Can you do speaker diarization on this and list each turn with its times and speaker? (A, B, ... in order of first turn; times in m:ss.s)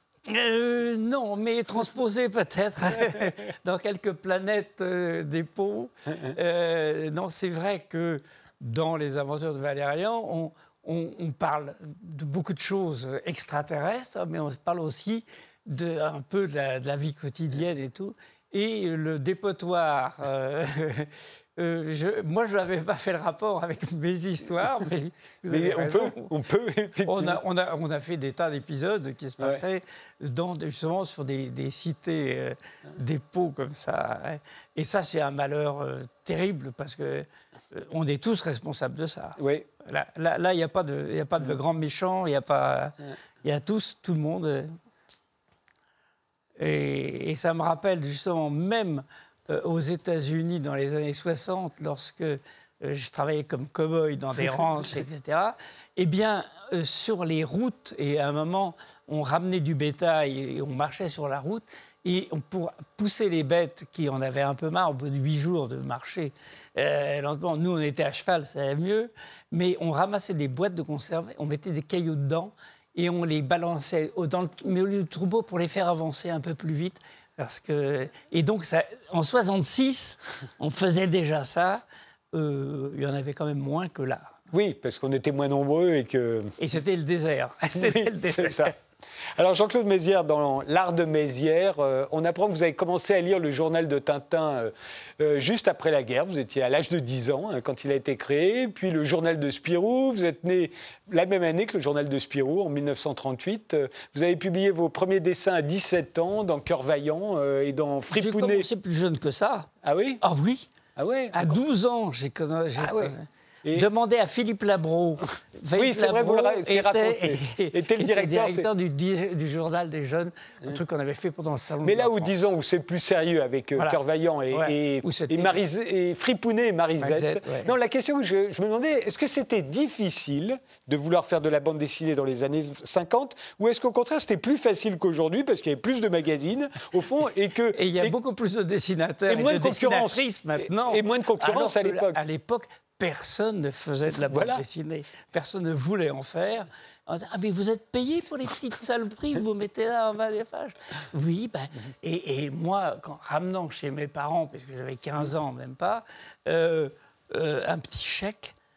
0:00.3-0:26.3 A
0:25.5-0:27.4 B
0:27.0-0:44.7 A
0:39.4-0:39.7 B
0:46.6-1:24.4 A
1:24.5-1:26.6 B
1:26.6-1:28.7 A
1:27.7-1:28.7 B
1:29.3-1:48.7 B
1:48.1-1:49.7 A
1:49.8-1:50.2 B
1:50.2-1:50.7 A
1:51.0-1:51.6 B
1:51.3-2:02.4 A
1:52.8-1:53.9 B
1:55.7-1:58.7 B
2:01.8-2:18.2 B
2:04.5-2:05.6 A
2:07.0-2:07.7 A
2:17.7-2:38.5 A
2:19.3-2:22.2 B
2:24.3-2:24.6 B